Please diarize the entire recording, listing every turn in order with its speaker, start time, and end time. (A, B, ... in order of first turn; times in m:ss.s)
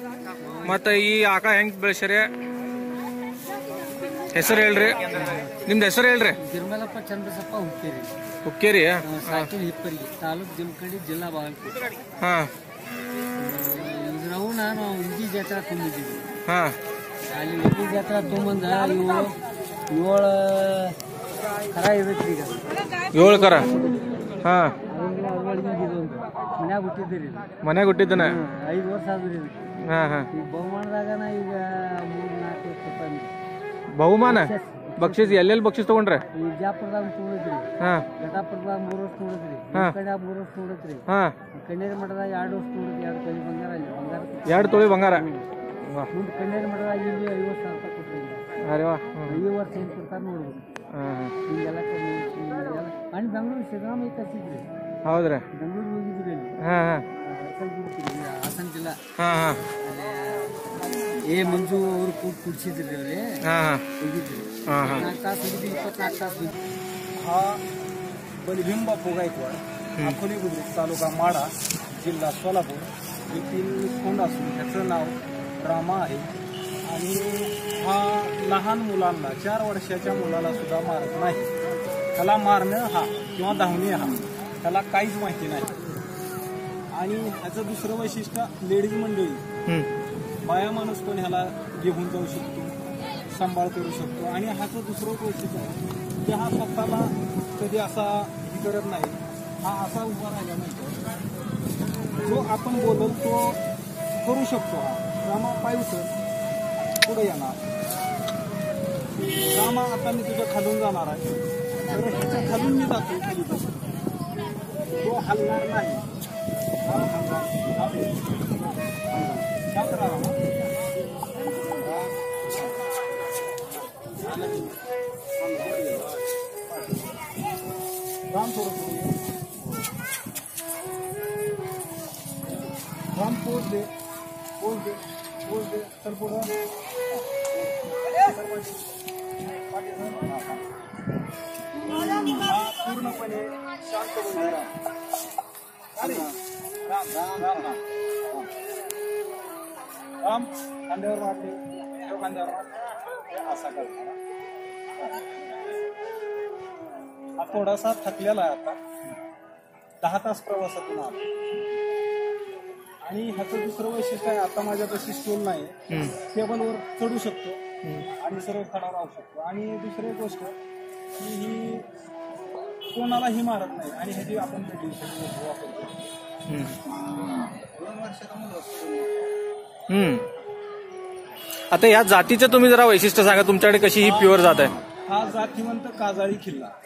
0:00.5-0:02.3 A
0:04.3-0:06.4 A
0:06.4-0:08.1 B
0:08.4-0:09.5 A
0:09.0-0:11.9 B
0:12.2-0:12.5 A
0:13.4-0:16.3 B
0:16.5-0:16.8 A
0:17.3-0:19.4 B
0:19.9-0:21.0 B
0:21.7-0:24.3 B
0:23.1-0:23.7 A
0:24.4-0:24.8 A
0:24.8-0:27.5 B
0:27.6-0:28.4 A
0:28.1-0:29.7 B
0:29.8-0:30.3 A
0:30.3-0:33.3 B
0:33.9-0:36.2 A
0:34.2-0:35.4 B
0:36.3-0:45.5 B
0:37.8-0:38.1 A
0:41.1-0:41.4 A
0:44.5-0:45.3 A
0:45.8-0:46.1 A
0:46.1-0:48.5 B
0:48.6-0:49.4 A
0:49.2-0:50.9 B
0:50.9-0:51.4 A
0:51.4-0:54.7 B
0:55.0-0:55.5 A
0:55.5-0:56.6 B
0:56.6-0:57.1 A
0:57.2-0:59.0 B
0:59.2-0:59.6 A
0:59.8-1:03.4 B
1:03.4-1:03.9 A
1:04.0-1:06.6 B
1:04.7-1:05.1 A
1:07.2-1:07.6 C
1:08.4-1:16.3 C
1:16.9-1:21.5 C
1:22.2-1:25.8 C
1:26.9-1:29.4 C
1:30.4-1:32.8 C
1:33.3-1:41.0 C
1:42.2-1:43.6 C
1:44.2-1:46.1 C
1:46.8-1:47.6 C
1:49.5-1:51.3 C
1:51.9-1:53.7 C
1:55.0-1:56.1 C
1:56.9-1:58.2 C
1:59.1-2:00.4 C
2:01.8-2:02.6 C
2:04.2-2:04.8 C
2:05.4-2:07.0 C
2:08.3-2:09.2 C
2:13.2-2:13.9 C
2:14.6-2:16.5 C
2:18.0-2:18.9 C
2:19.7-2:20.6 C
2:22.4-2:24.7 C
2:26.0-2:26.4 C
2:26.9-2:28.5 C
2:30.2-2:34.2 C
2:37.4-2:38.8 C
2:40.0-2:41.2 C
2:43.0-2:47.6 C
2:45.9-2:46.2 A
2:47.8-2:48.1 A
2:48.2-2:50.6 C
2:51.2-2:51.9 C
2:52.9-2:56.1 C
2:56.5-2:56.8 A
2:57.5-2:59.1 C
2:59.9-3:00.3 A
3:01.7-3:04.8 A
3:04.0-3:06.8 C